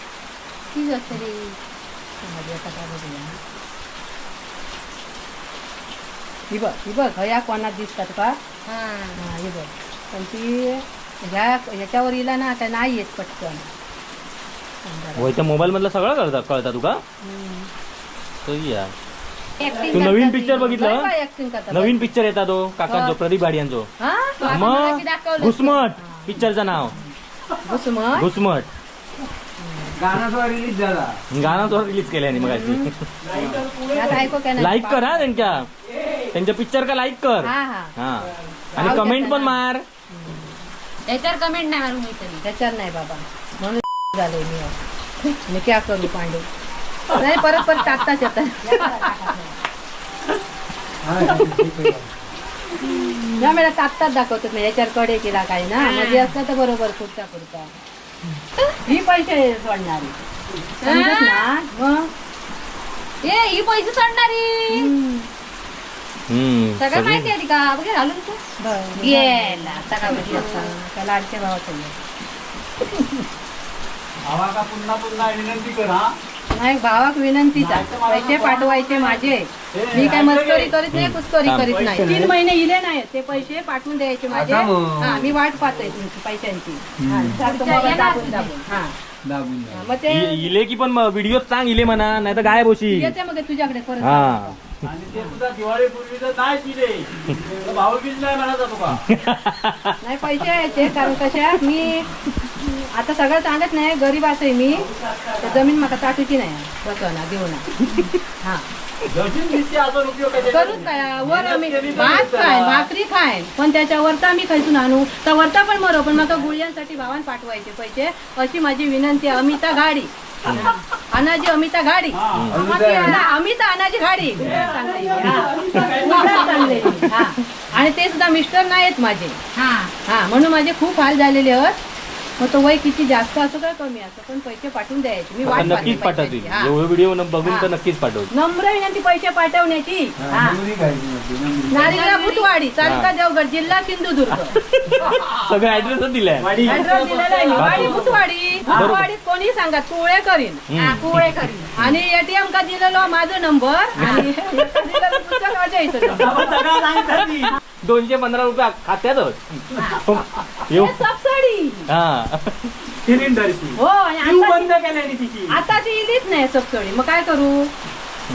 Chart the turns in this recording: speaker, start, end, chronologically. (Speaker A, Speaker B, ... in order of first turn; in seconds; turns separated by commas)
Speaker A: 0.7-1.6, Speaker B: 2.2-3.4, Speaker B: 6.5-8.4, Speaker A: 8.7-9.2, Speaker B: 9.2-13.6, Speaker B: 14.8-15.4, Speaker C: 15.2-17.0, Speaker B: 17.2-17.7, Speaker C: 18.4-18.9, Speaker A: 19.6-20.4, Speaker B: 19.8-22.1, Speaker C: 19.9-21.1, Speaker C: 21.7-23.9, Speaker B: 22.9-23.2, Speaker B: 24.0-24.5, Speaker A: 24.4-25.8, Speaker C: 24.5-26.9, Speaker B: 26.0-28.3, Speaker C: 28.1-28.7, Speaker B: 29.6-29.9, Speaker D: 30.0-31.2, Speaker C: 31.3-32.9, Speaker B: 32.3-32.9, Speaker E: 33.2-34.4, Speaker D: 33.3-33.6, Speaker B: 33.9-35.6, Speaker C: 34.5-35.6, Speaker C: 36.3-39.8, Speaker B: 37.4-37.9, Speaker B: 38.8-39.6, Speaker B: 40.1-40.6, Speaker A: 41.1-42.5, Speaker B: 42.4-44.8, Speaker B: 45.3-46.5, Speaker B: 47.1-49.5, Speaker D: 51.1-52.1, Speaker B: 51.3-51.6, Speaker A: 52.8-53.5, Speaker B: 53.4-57.7, Speaker A: 55.8-56.3, Speaker B: 58.9-60.1, Speaker A: 60.8-61.5, Speaker B: 60.8-62.1, Speaker A: 63.2-64.9, Speaker B: 64.7-65.3, Speaker C: 66.3-67.3, Speaker A: 66.8-68.4, Speaker B: 68.6-72.0, Speaker A: 69.0-70.7, Speaker E: 74.3-76.2, Speaker B: 76.5-88.9, Speaker E: 77.5-78.6, Speaker A: 78.3-79.3, Speaker E: 79.7-80.8, Speaker C: 80.9-81.8, Speaker E: 81.7-82.3, Speaker D: 84.3-85.3, Speaker D: 87.0-87.4, Speaker A: 87.4-88.5, Speaker D: 89.3-89.8, Speaker B: 89.7-90.5, Speaker C: 90.1-93.1, Speaker B: 92.9-94.6, Speaker C: 94.0-94.5, Speaker E: 94.8-99.0, Speaker B: 95.1-95.4, Speaker C: 99.1-99.9, Speaker B: 100.0-107.7, Speaker E: 109.1-112.9, Speaker B: 110.4-129.4, Speaker C: 120.5-120.8, Speaker E: 122.1-123.2, Speaker A: 122.6-123.2, Speaker E: 124.4-126.0, Speaker F: 124.5-127.0, Speaker A: 126.0-127.0, Speaker A: 129.6-129.9, Speaker B: 130.1-131.8, Speaker B: 132.4-136.8, Speaker C: 135.4-138.3, Speaker E: 135.5-135.9, Speaker B: 137.4-137.7, Speaker B: 138.3-140.6, Speaker D: 140.2-142.0, Speaker B: 141.7-144.6, Speaker A: 141.8-142.5, Speaker C: 142.8-143.1, Speaker C: 144.5-146.6, Speaker E: 146.4-148.9, Speaker B: 146.6-150.6, Speaker C: 147.6-147.9, Speaker C: 148.7-149.1, Speaker C: 150.7-151.2, Speaker A: 150.8-151.7, Speaker B: 151.8-156.4, Speaker C: 154.0-154.3, Speaker A: 154.0-154.3, Speaker F: 156.1-157.6, Speaker C: 157.8-161.0, Speaker A: 159.8-160.0, Speaker B: 160.7-161.9, Speaker C: 161.9-162.7, Speaker F: 163.0-165.6, Speaker B: 163.8-164.8, Speaker B: 165.5-167.7